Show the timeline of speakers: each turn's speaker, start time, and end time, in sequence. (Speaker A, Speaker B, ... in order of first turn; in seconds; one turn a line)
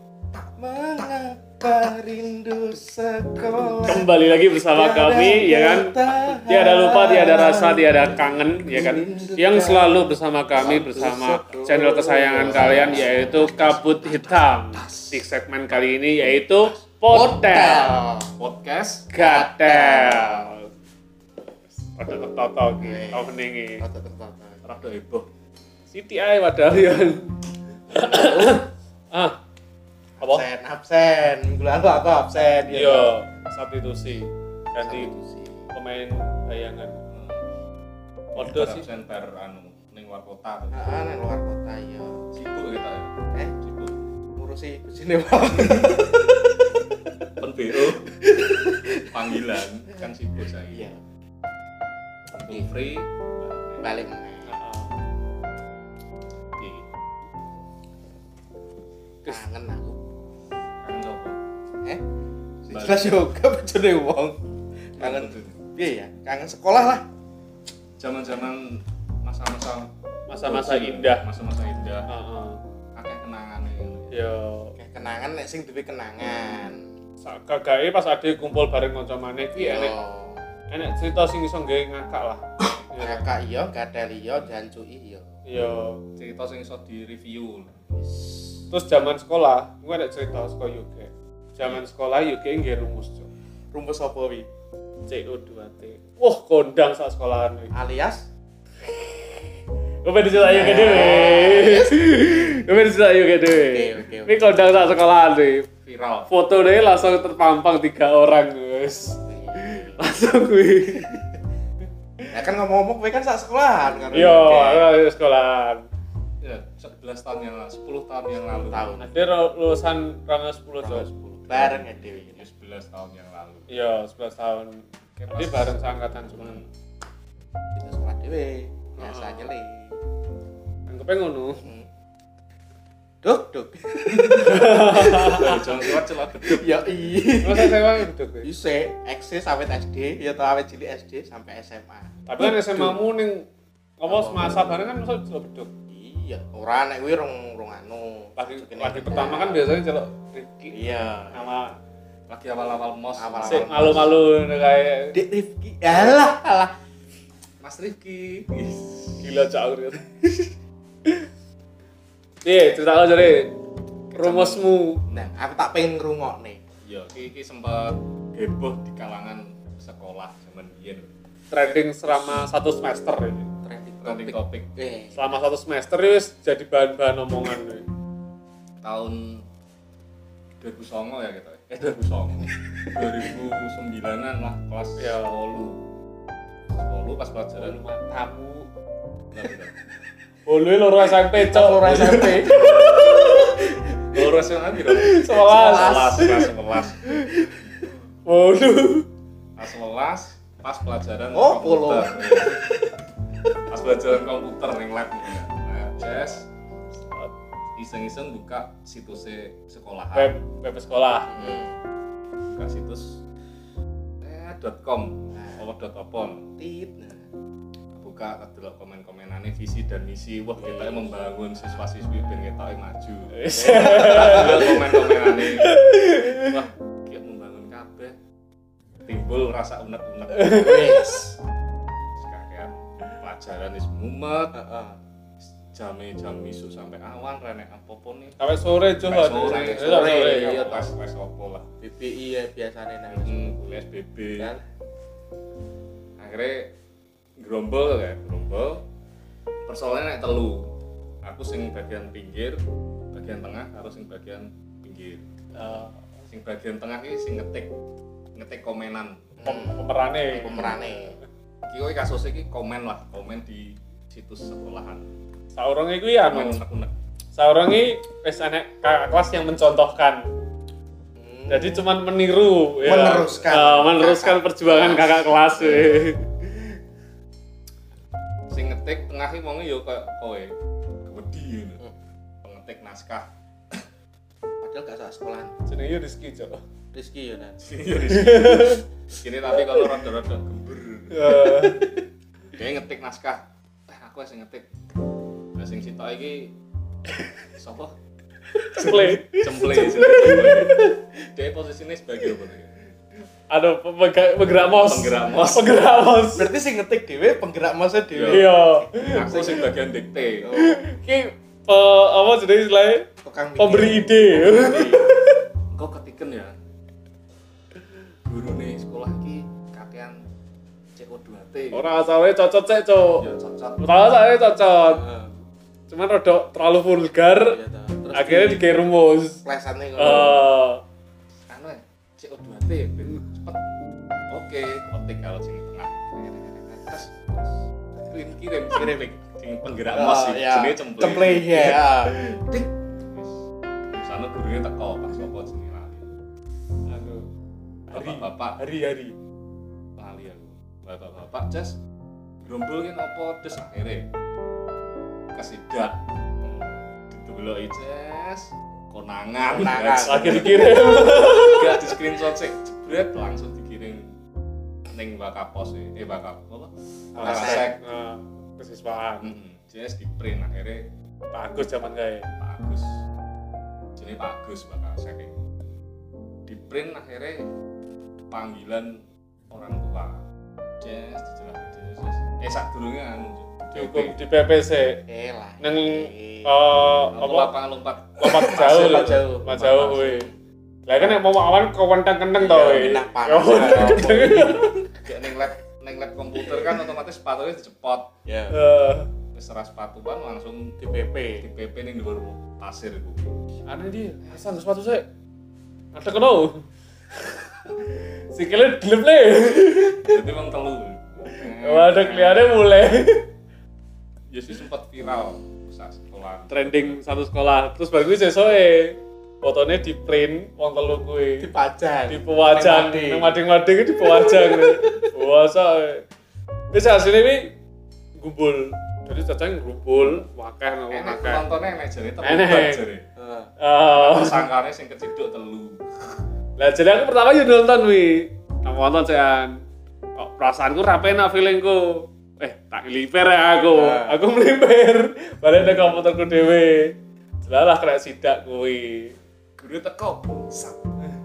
Speaker A: 0.3-10.0
Speaker B: 3.8-17.9
Speaker A: 10.5-13.9
Speaker C: 12.4-15.2
Speaker C: 16.2-16.7
Speaker A: 17.1-18.3
Speaker C: 18.4-19.1
Speaker B: 19.1-20.7
Speaker A: 19.1-20.5
Speaker B: 21.9-23.8
Speaker A: 22.8-24.6
Speaker C: 24.6-25.3
Speaker B: 25.9-29.4
Speaker A: 27.9-28.6
Speaker A: 30.2-33.1
Speaker B: 32.7-35.1
Speaker A: 34.8-35.6
Speaker B: 35.7-37.0
Speaker C: 37.1-37.4
Speaker B: 38.4-38.9
Speaker C: 38.4-40.9
Speaker A: 40.7-42.2
Speaker C: 42.3-43.9
Speaker A: 44.4-47.2
Speaker C: 47.4-48.1
Speaker A: 48.1-49.4
Speaker C: 49.0-50.9
Speaker A: 50.7-51.0
Speaker C: 52.3-53.9
Speaker A: 53.8-54.5
Speaker B: 54.5-55.0
Speaker C: 56.6-56.8
Speaker A: 59.3-60.0
Speaker C: 60.8-61.4
Speaker C: 62.7-63.2
Speaker A: 62.7-64.4
Speaker A: 65.0-67.0
Speaker C: 65.0-65.6
Speaker C: 68.0-69.9
Speaker B: 70.3-71.2
Speaker C: 70.5-72.1
Speaker B: 72.1-72.6
Speaker C: 73.0-74.1
Speaker B: 74.1-74.7
Speaker A: 74.8-76.9
Speaker B: 77.2-79.9
Speaker A: 79.5-80.5
Speaker B: 80.7-83.2
Speaker A: 83.0-85.3
Speaker B: 85.5-86.0
Speaker C: 86.2-87.8
Speaker A: 88.0-88.6
Speaker B: 88.7-93.3
Speaker A: 93.7-94.5
Speaker B: 95.1-97.7
Speaker A: 97.7-98.3
Speaker B: 98.8-99.5
Speaker B: 100.0-105.7
Speaker A: 100.3-102.3
Speaker A: 103.5-104.4
Speaker C: 105.9-106.3
Speaker B: 106.3-111.2
Speaker A: 109.2-110.0
Speaker A: 112.3-114.9
Speaker B: 114.1-115.8
Speaker C: 116.4-118.9
Speaker A: 118.7-119.1
Speaker B: 119.0-121.1
Speaker A: 120.8-122.5
Speaker C: 121.5-123.7
Speaker B: 123.7-126.6
Speaker C: 125.2-125.7
Speaker C: 126.3-126.7
Speaker A: 127.8-130.0
Speaker B: 129.0-129.5
Speaker B: 130.9-131.7
Speaker A: 131.6-131.9
Speaker A: 133.2-143.0
Speaker B: 134.3-135.8
Speaker C: 135.3-136.9
Speaker B: 137.4-138.5
Speaker B: 142.3-143.5
Speaker B: 144.0-145.7
Speaker A: 144.1-144.7
Speaker A: 145.9-149.7
Speaker B: 148.4-151.8
Speaker A: 150.7-151.6
Speaker C: 152.3-153.8
Speaker A: 153.2-154.2
Speaker B: 153.4-155.2
Speaker A: 155.1-156.7
Speaker C: 157.6-159.3
Speaker B: 159.2-160.5
Speaker B: 162.4-163.6
Speaker C: 164.1-165.3
Speaker B: 164.1-165.0
Speaker A: 165.1-166.6
Speaker C: 166.8-172.4
Speaker B: 171.5-173.5
Speaker A: 173.6-175.2
Speaker C: 174.0-174.7
Speaker B: 175.1-177.8
Speaker C: 178.8-179.4
Speaker C: 180.6-185.8
Speaker B: 185.0-185.4
Speaker C: 186.7-187.8
Speaker B: 187.6-188.7
Speaker C: 189.3-189.7
Speaker B: 190.5-193.6
Speaker A: 191.3-194.2
Speaker C: 194.1-197.1
Speaker B: 194.9-197.3
Speaker A: 195.4-196.5
Speaker A: 197.1-197.5
Speaker B: 198.2-199.1
Speaker C: 199.6-202.6
Speaker A: 201.3-202.6
Speaker C: 203.7-206.5
Speaker C: 207.8-210.3
Speaker B: 210.1-211.3
Speaker A: 211.3-211.8
Speaker C: 212.5-213.2
Speaker C: 214.2-216.5
Speaker A: 215.3-215.6
Speaker A: 216.6-217.3
Speaker C: 218.0-228.2
Speaker A: 220.6-221.1
Speaker B: 223.3-226.6
Speaker A: 223.5-224.9
Speaker C: 229.1-231.0
Speaker B: 230.3-231.2
Speaker A: 230.5-231.3
Speaker C: 232.2-234.6
Speaker A: 234.5-235.0
Speaker C: 235.4-238.4
Speaker B: 238.4-240.7
Speaker C: 239.0-241.7
Speaker A: 239.5-240.9
Speaker A: 241.8-243.8
Speaker C: 243.1-244.5
Speaker A: 244.4-244.6
Speaker C: 246.2-246.7
Speaker C: 247.4-248.8
Speaker C: 249.7-250.7
Speaker C: 251.2-252.6
Speaker C: 253.1-255.2
Speaker B: 255.6-256.0
Speaker C: 256.3-257.7
Speaker C: 258.4-259.3
Speaker A: 259.4-261.2
Speaker B: 259.4-261.2
Speaker C: 260.5-260.8
Speaker C: 261.7-265.1
Speaker B: 265.6-266.6
Speaker C: 266.3-266.9
Speaker B: 267.4-270.3
Speaker A: 271.1-271.9
Speaker B: 271.5-276.3
Speaker A: 272.8-275.3
Speaker C: 275.6-276.1
Speaker C: 278.5-280.5
Speaker C: 281.1-281.8
Speaker C: 282.4-283.8
Speaker A: 284.6-285.6
Speaker B: 285.7-286.6
Speaker A: 286.9-287.6
Speaker C: 287.6-291.5
Speaker B: 288.1-288.8
Speaker B: 291.1-291.9
Speaker A: 291.4-292.0
Speaker C: 292.6-294.7
Speaker C: 295.6-296.5
Speaker C: 297.6-297.9
Speaker B: 298.6-300.9
Speaker C: 298.8-302.7
Speaker A: 299.9-300.7
Speaker B: 303.5-306.5
Speaker C: 304.6-305.9
Speaker A: 306.4-309.4
Speaker C: 308.1-310.5
Speaker B: 308.3-309.7
Speaker A: 310.4-310.8
Speaker B: 310.5-315.4
Speaker A: 313.2-315.0
Speaker C: 314.5-315.0
Speaker C: 315.7-316.6
Speaker C: 318.2-320.2
Speaker C: 321.0-321.8
Speaker B: 321.7-323.3
Speaker C: 323.2-323.8
Speaker B: 323.8-325.1
Speaker A: 324.9-325.3
Speaker B: 325.9-327.6
Speaker A: 327.4-328.6
Speaker B: 328.1-329.4
Speaker A: 329.4-330.4
Speaker B: 330.0-330.8
Speaker C: 331.5-333.7
Speaker C: 334.3-341.9
Speaker A: 338.7-339.0
Speaker A: 339.9-342.6
Speaker C: 343.0-346.1
Speaker B: 346.9-347.3
Speaker B: 347.9-349.2
Speaker C: 347.9-348.6
Speaker C: 350.0-351.8
Speaker C: 352.4-354.1
Speaker C: 355.4-364.1
Speaker A: 359.5-360.8
Speaker B: 360.1-361.8
Speaker C: 364.9-367.8
Speaker A: 367.1-367.7
Speaker B: 367.2-369.3
Speaker C: 369.2-370.9
Speaker B: 371.3-372.3
Speaker C: 372.4-373.0
Speaker C: 374.0-375.4
Speaker C: 376.5-377.5
Speaker C: 378.3-380.2
Speaker C: 380.8-384.2
Speaker B: 383.7-385.0
Speaker A: 385.1-386.6
Speaker B: 385.6-387.5
Speaker C: 387.1-389.2
Speaker B: 388.2-390.3
Speaker A: 388.3-390.4
Speaker B: 390.9-394.9
Speaker A: 392.4-394.7
Speaker C: 393.4-394.5
Speaker C: 395.0-398.1
Speaker A: 398.3-398.6
Speaker B: 398.5-399.1
Speaker C: 399.3-400.8
Speaker A: 400.8-401.5
Speaker C: 401.4-403.3
Speaker B: 403.7-405.1
Speaker B: 405.9-406.6
Speaker B: 407.2-410.2
Speaker C: 410.0-412.5
Speaker B: 411.3-413.3
Speaker C: 414.3-417.0
Speaker B: 416.5-421.5
Speaker A: 421.4-423.4
Speaker B: 422.1-426.1
Speaker A: 424.0-425.1
Speaker B: 426.7-427.6
Speaker B: 428.2-431.4
Speaker C: 430.9-433.1
Speaker B: 432.2-432.9
Speaker A: 433.2-433.5
Speaker B: 433.6-434.5
Speaker C: 433.9-436.2
Speaker B: 436.6-439.6
Speaker B: 440.2-449.2
Speaker A: 443.7-444.2
Speaker C: 449.6-450.8